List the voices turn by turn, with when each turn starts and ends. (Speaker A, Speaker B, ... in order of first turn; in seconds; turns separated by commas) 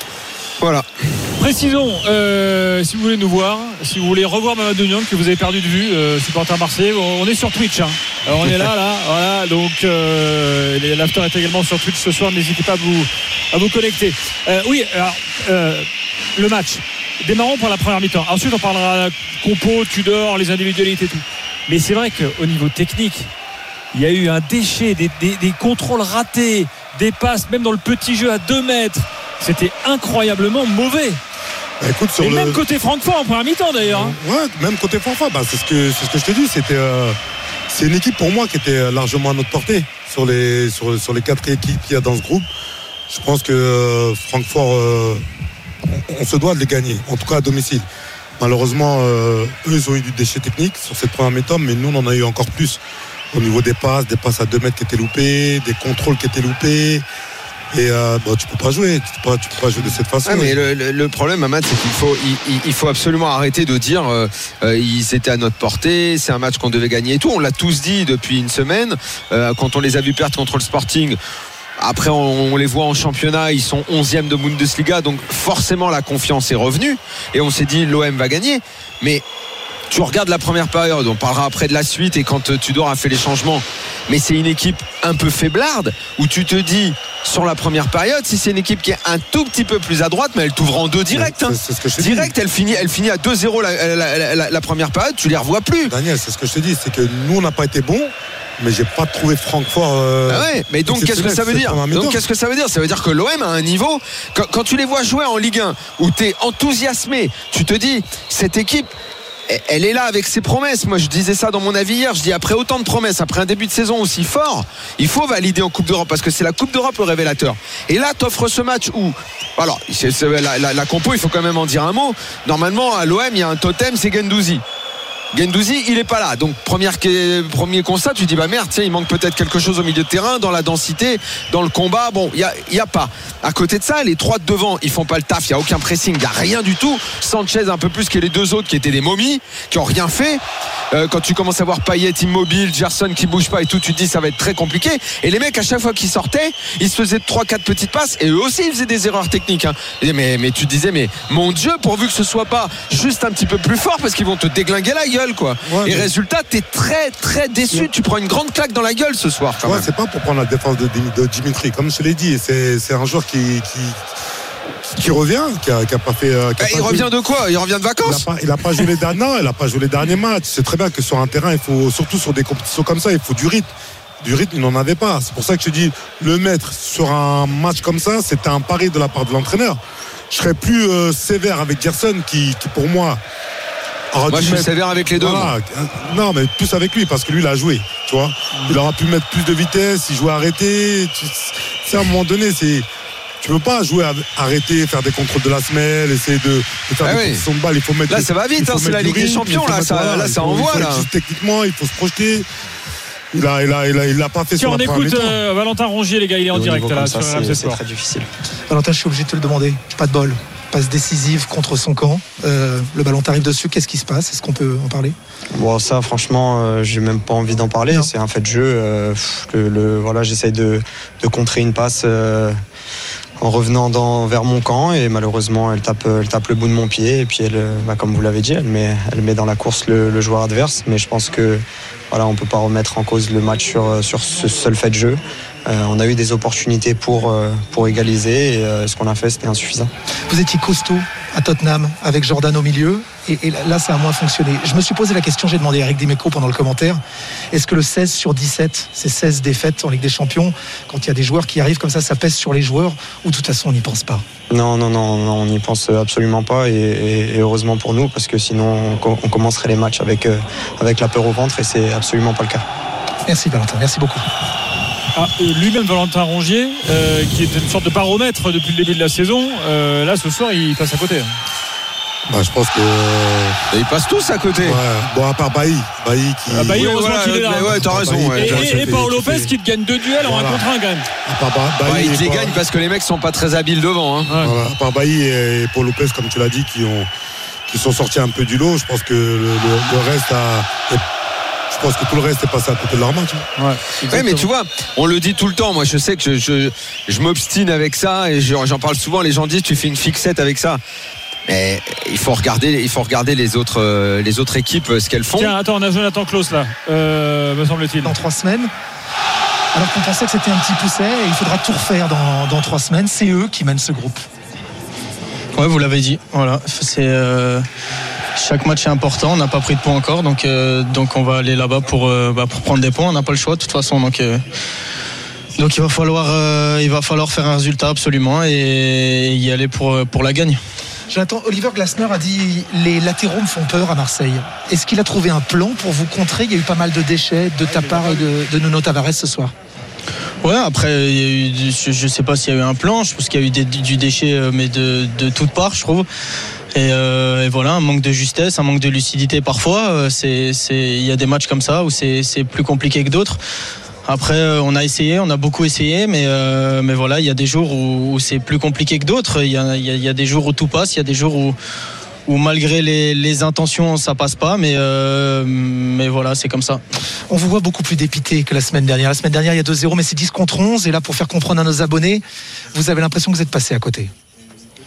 Speaker A: 0.6-1.3, Speaker B: 1.4-23.3, Speaker B: 23.9-31.2, Speaker C: 31.8-32.6, Speaker B: 32.2-34.1, Speaker C: 33.9-37.2, Speaker C: 37.7-42.5, Speaker C: 43.1-45.2, Speaker C: 45.9-47.9, Speaker C: 48.4-52.8, Speaker C: 53.3-57.0, Speaker C: 57.7-60.6, Speaker A: 60.2-71.2, Speaker A: 71.8-79.2, Speaker A: 79.9-95.9, Speaker C: 91.1-92.3, Speaker C: 95.9-102.2, Speaker A: 100.3-108.9, Speaker A: 109.5-124.6, Speaker A: 125.3-159.9, Speaker C: 155.6-156.1, Speaker C: 159.6-164.0, Speaker C: 164.9-167.1, Speaker A: 166.6-168.9, Speaker C: 168.0-179.8, Speaker C: 180.3-183.2, Speaker C: 184.1-192.9, Speaker A: 184.3-185.5, Speaker C: 193.4-202.5, Speaker A: 197.0-197.5, Speaker A: 198.1-201.1, Speaker C: 203.3-205.4, Speaker B: 204.6-207.8, Speaker D: 206.5-208.3, Speaker E: 208.7-215.2, Speaker D: 215.5-222.6, Speaker D: 223.4-239.9, Speaker E: 240.3-247.0, Speaker E: 247.5-254.2, Speaker D: 254.5-262.7, Speaker E: 263.3-264.2, Speaker B: 265.2-271.3, Speaker C: 272.3-273.6, Speaker A: 273.7-274.8, Speaker C: 274.6-276.9, Speaker B: 276.5-281.1, Speaker A: 276.7-279.0, Speaker C: 277.7-279.5, Speaker C: 280.2-280.6, Speaker C: 281.3-282.6, Speaker A: 281.9-284.3, Speaker B: 284.3-284.6, Speaker C: 284.4-287.1, Speaker C: 287.7-291.0, Speaker C: 291.7-293.5, Speaker B: 293.6-294.5, Speaker A: 294.1-300.8, Speaker A: 301.5-305.5, Speaker B: 305.4-308.2, Speaker E: 308.1-308.7, Speaker E: 309.7-314.2, Speaker F: 315.6-317.7, Speaker F: 318.4-324.4, Speaker F: 325.6-330.6, Speaker E: 331.1-339.5, Speaker F: 340.4-346.1, Speaker F: 346.7-353.4, Speaker F: 354.1-361.6, Speaker F: 362.3-366.8, Speaker E: 367.3-372.2, Speaker E: 372.7-374.1